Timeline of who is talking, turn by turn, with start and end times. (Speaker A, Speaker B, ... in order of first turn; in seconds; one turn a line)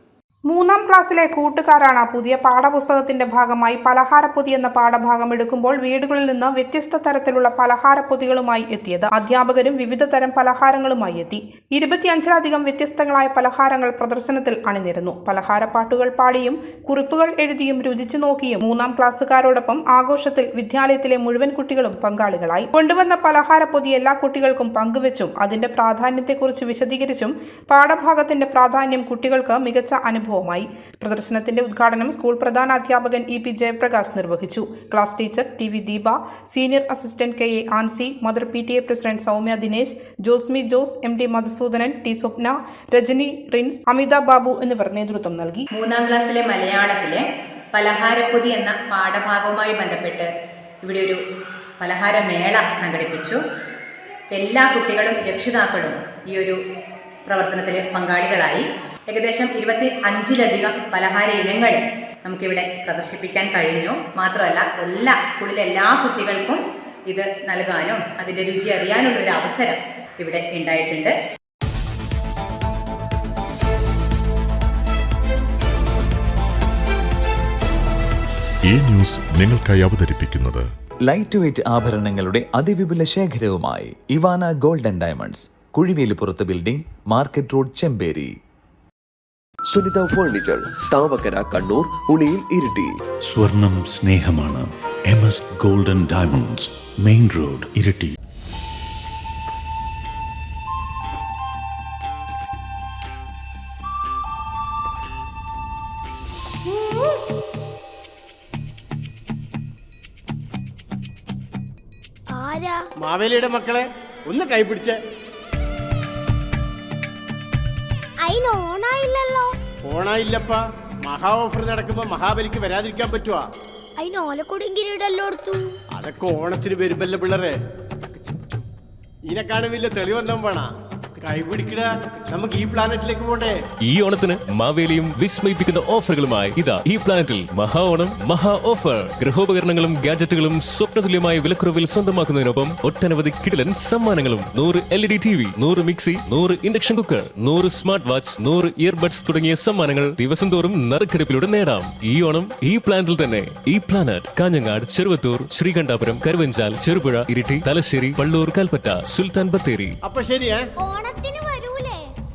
Speaker A: 0.5-45.7
Speaker B: 45.7-50.3
Speaker B: 50.8-51.2
Speaker B: 51.8-53.4
Speaker B: 54.3-56.6
Speaker B: 57.3-71.1
Speaker C: 78.7-80.7
Speaker D: 81.1-88.3
Speaker E: 89.7-93.0
Speaker F: 93.3-98.1
Speaker G: 112.4-112.7
Speaker H: 113.0-115.0
Speaker G: 118.3-119.4
Speaker H: 119.8-123.5
Speaker G: 124.0-125.5
Speaker H: 126.0-127.5
Speaker H: 129.3-130.7
Speaker H: 131.2-133.6
Speaker I: 133.9-160.0
Speaker H: 160.0-160.6
Speaker G: 160.9-161.9